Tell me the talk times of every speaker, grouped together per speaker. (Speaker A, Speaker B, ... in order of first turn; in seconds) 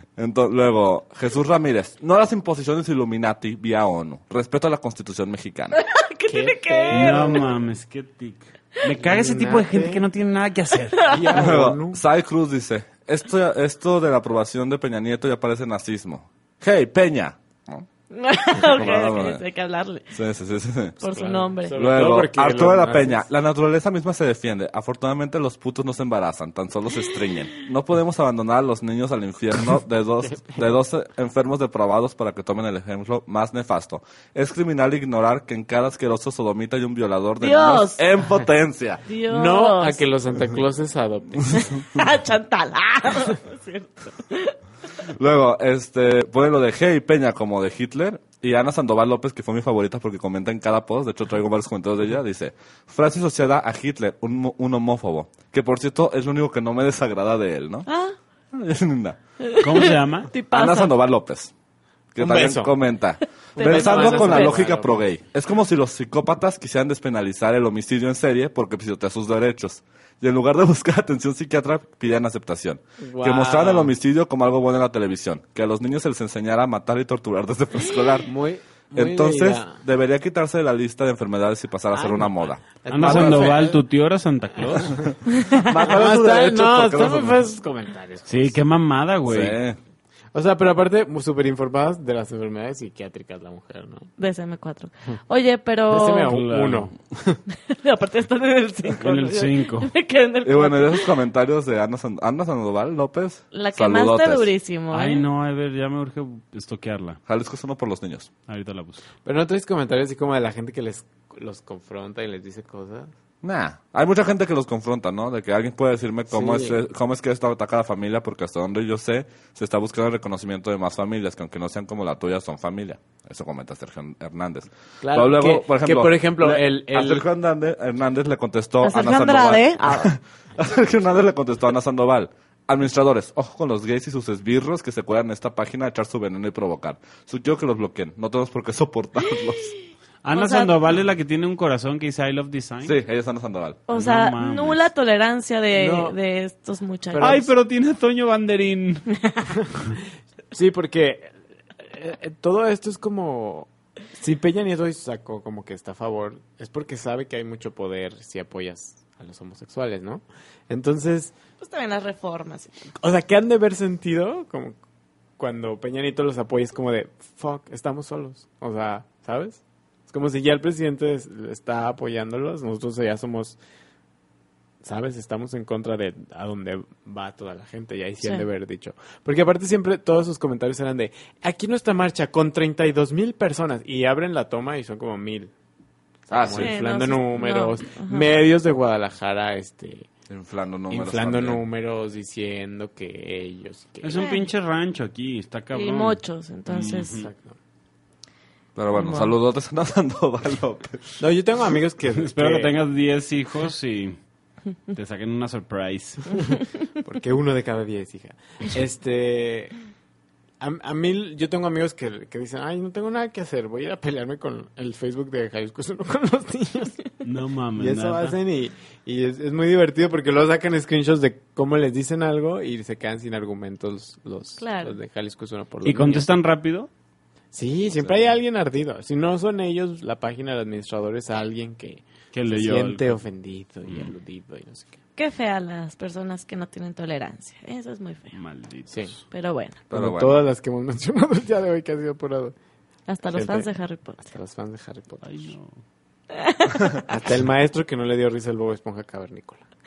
Speaker A: 0.2-5.8, 11.3-17.9, 18.6-19.4, 20.1-21.0, 21.7-39.0, 45.2-57.9, 58.5-59.2, 60.5-61.5, 62.1-78.3, 78.9-83.6, 85.0-87.4, 89.3-89.8, 100.4-104.5, 107.3-108.3, 113.4-139.7, 142.8-143.8, 186.3-186.8, 190.3-191.6, 198.8-201.2, 239.9-240.4
Speaker B: 5.8-7.4, 18.1-20.0, 21.0-21.7, 37.4-38.0, 39.1-40.0, 41.5-44.5, 57.9-58.1, 59.5-60.9, 63.5-64.6, 85.4-85.6, 94.2-96.3, 97.7-101.1, 103.5-105.2, 128.8-130.1, 140.3-140.7, 143.9-147.4, 161.6-162.8, 186.5-188.3, 194.1-194.5, 195.7-197.2, 198.9-199.3, 224.6-224.9, 235.2-238.4, 239.3-239.8, 243.1-244.3, 246.3-247.0
Speaker C: 6.3-7.5, 9.0-10.0, 11.1-12.0, 21.0-23.3, 30.3-30.6, 39.3-41.7, 62.2-62.8, 63.5-65.1, 73.0-73.9, 78.2-79.8, 81.9-83.8, 84.6-85.0, 85.7-88.6, 90.3-94.1, 95.9-97.4, 109.2-113.1, 116.3-116.8, 125.0-127.2, 145.7-146.2, 147.1-147.5, 150.5-161.3, 163.0-164.8, 165.4-173.6, 174.8-185.5, 186.3-190.1, 190.9-194.2, 197.1-197.6, 201.2-202.8, 207.0-209.7, 210.6-217.0, 217.8-226.3, 227.5-235.0, 238.9-239.1, 239.9-242.5, 243.3-245.2, 247.1-249.6
Speaker D: 6.9-11.1, 59.6-60.3, 82.9-85.1, 88.3-89.6, 96.2-96.9, 99.0-99.9, 104.9-107.2, 108.5-109.0, 140.2-142.9, 143.9-144.9, 147.2-149.1, 194.0-197.3, 202.2-204.2, 204.9-206.4, 217.2-218.4, 225.8-226.9, 232.3-233.2, 238.3-239.2, 245.2-245.8